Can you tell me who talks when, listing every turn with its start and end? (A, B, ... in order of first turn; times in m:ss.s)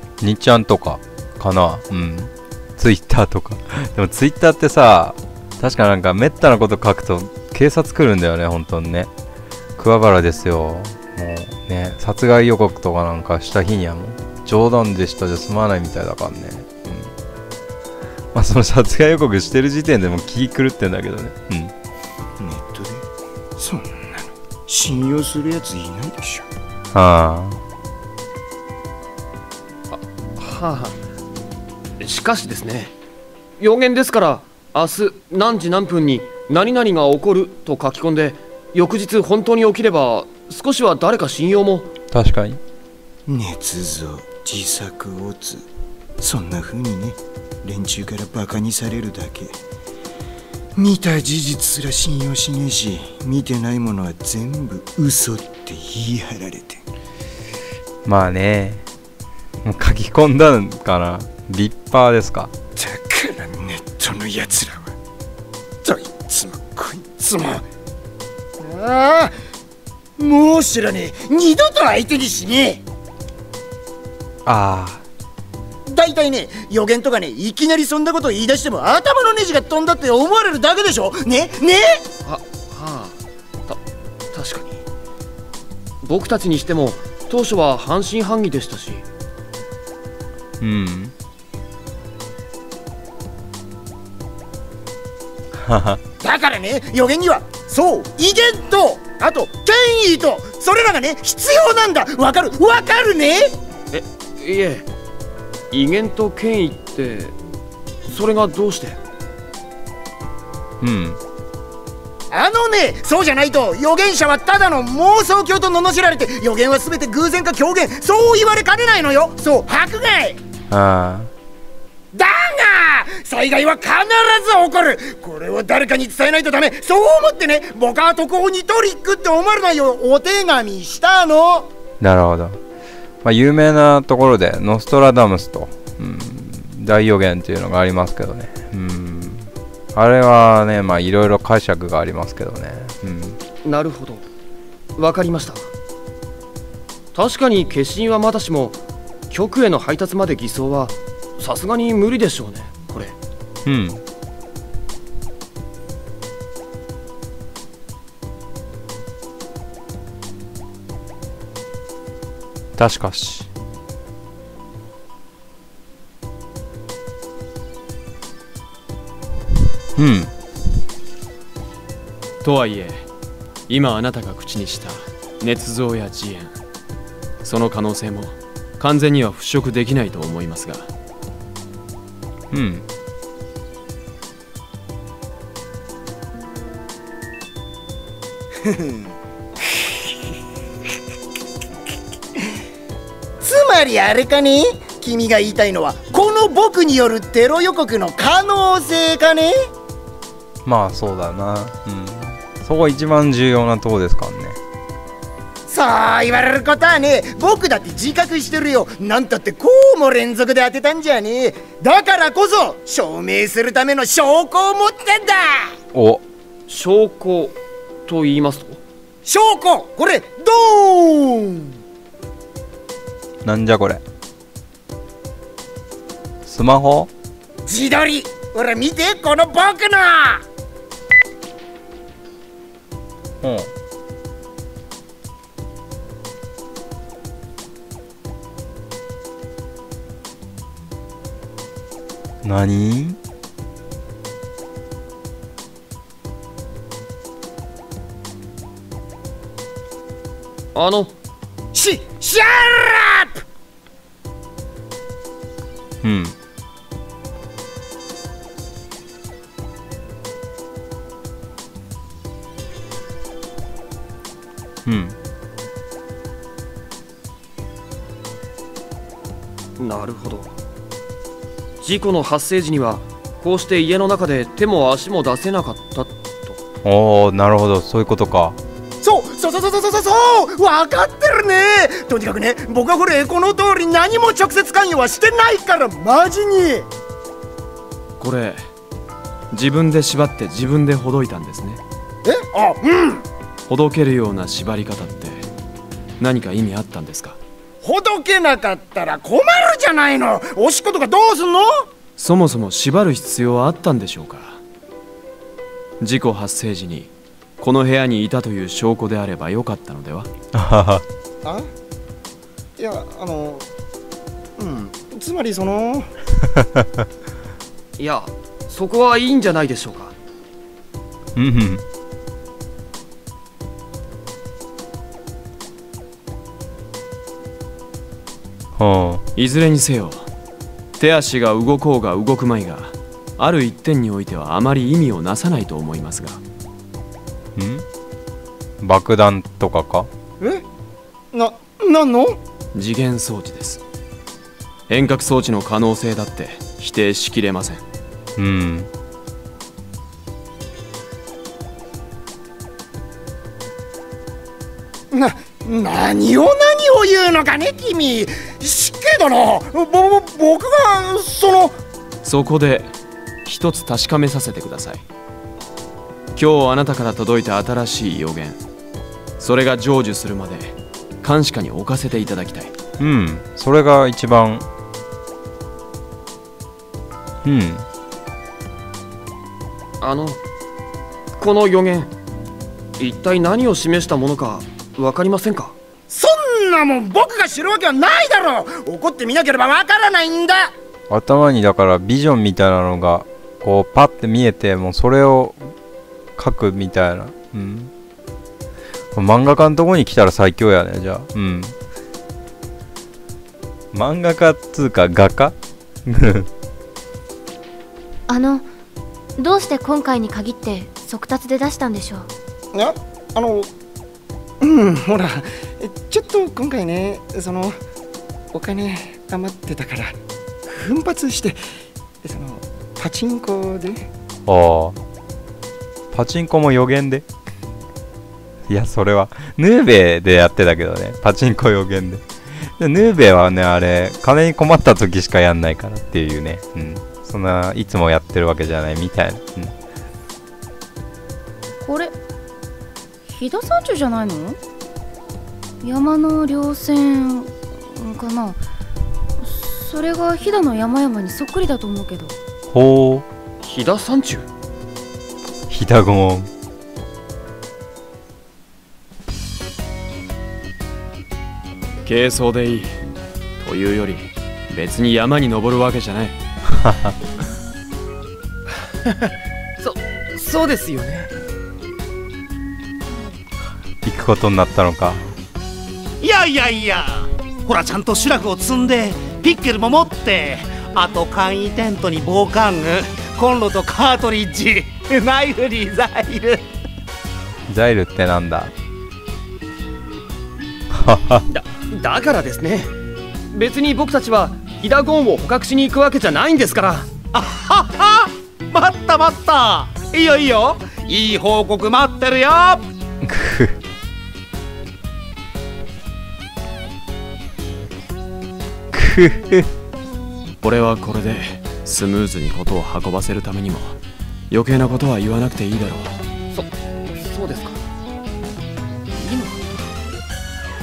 0:00.2-0:09.1 A
0:09.8-0:17.1 A
0:18.3-0:21.7 A
0:22.4-0:23.0 B
0:23.6-0:26.5 B
0:26.9-0:27.6 A
0:29.9-0:31.0 C
0:32.0-0:32.9 C
0:33.6-0:41.9 C
0:42.1-0:42.6 A
0:43.3-0:45.6 B
0:46.2-0:49.5 B
0:50.8-0:56.8 B
0:58.0-0:58.8 A
0:59.6-1:02.5 A
1:02.8-1:04.9 B
1:05.8-1:07.6 B
1:08.6-1:09.4 B
1:10.2-1:12.8 B
1:14.5-1:15.0 A
1:15.9-1:22.0 B
1:22.2-1:23.8 C
1:24.3-1:24.8 C
1:26.0-1:29.0 C
1:30.6-1:31.1 A
1:35.6-1:36.0 A
1:36.2-1:43.5 B
1:43.9-1:44.9 C
1:45.7-1:47.4 C
1:48.1-1:49.0 C
1:50.8-1:51.2 A
1:52.3-2:00.4 B
2:00.7-2:01.3 A
2:02.1-2:11.7 B
2:12.0-2:12.6 A
2:13.2-2:23.4 A
2:23.6-2:24.3 C
2:25.0-2:25.7 C
2:27.1-2:28.8 C
2:29.3-2:33.2 C
2:33.6-2:34.0 A
2:42.8-2:43.5 A
2:50.0-2:50.3 A
2:52.4-2:53.0 D
2:53.7-2:56.6 D
2:57.4-3:00.9 D
3:02.5-3:02.8 A
3:08.6-3:09.0 B
3:13.4-3:19.6 B
3:20.6-3:24.6 A
3:25.7-3:35.7 B
3:35.9-3:36.2 A
3:36.7-3:38.8 C
3:39.3-3:41.7 B
3:43.4-3:44.0 A
3:46.4-3:47.1 A
3:47.6-3:50.4 B
3:53.4-3:53.7 A
4:02.4-4:03.2 A
4:10.8-4:11.2 C
4:11.7-4:13.4 B
4:16.0-4:16.4 A
4:24.8-4:25.2 A
4:29.8-4:30.6 C
4:31.8-4:36.6 C
4:36.8-4:38.6 A
4:39.0-4:46.9 B
4:48.2-4:48.6 D
4:49.5-4:51.8 D
4:52.2-4:53.2 B
4:53.7-4:55.5 D
4:56.2-4:57.4 D
4:57.8-5:01.9 B
5:02.2-5:04.6 D
5:06.0-5:10.3 D
5:10.6-5:11.0 A
5:11.4-5:11.7 B
5:12.8-5:13.6 B
5:14.6-5:16.1 B
5:16.6-5:16.8 A
5:18.0-5:20.2 C
5:21.4-5:21.8 A
5:28.8-5:29.2 A
5:29.4-5:30.3 D
5:31.0-5:36.4 D
5:37.6-5:37.9 A
5:38.8-5:40.1 A
5:41.3-5:42.4 B
5:42.8-5:43.8 D
5:44.9-5:47.8 D
5:48.4-5:48.9 A
5:55.1-6:01.8 B
6:02.2-6:02.9 D
6:03.4-6:05.0 D
6:06.4-6:08.6 D
6:09.4-6:12.7 D
6:13.0-6:14.7 A
6:17.4-6:17.9 A
6:20.0-6:20.4 C
6:21.4-6:22.1 C
6:23.0-6:25.8 C
6:26.1-6:30.7 B
6:31.1-6:35.7 A
6:36.4-6:37.9 A
6:39.1-6:41.8 A
6:43.9-6:45.6 A
6:46.1-6:46.5 A
6:48.3-6:48.7 E
6:49.4-6:52.3 E
6:52.7-6:53.7 B
6:54.6-6:57.8 B
6:58.5-7:00.2 B
7:00.7-7:01.6 B
7:02.2-7:04.1 B
7:04.5-7:05.0 A
7:06.1-7:07.2 A
7:08.7-7:19.7 A
7:21.8-7:22.1 F
7:23.3-7:24.6 F
7:25.8-7:28.6 F
7:29.4-7:32.4 F
7:32.7-7:33.2 A
7:33.6-7:34.5 C
7:35.7-7:36.5 A
7:42.0-7:43.0 D
7:43.6-7:46.4 D
7:46.7-7:47.1 A
7:49.0-7:51.3 C
7:54.0-7:55.2 A
7:56.2-8:06.6 G
8:07.7-8:08.7 A
8:10.9-8:11.4 A
8:11.5-8:12.9 C
8:13.5-8:17.1 C
8:17.3-8:22.9 G
8:23.2-8:23.8 A
8:28.9-8:29.7 A
8:30.6-8:34.0 D
8:34.5-8:36.2 D
8:36.5-8:37.8 C
8:39.2-8:39.9 C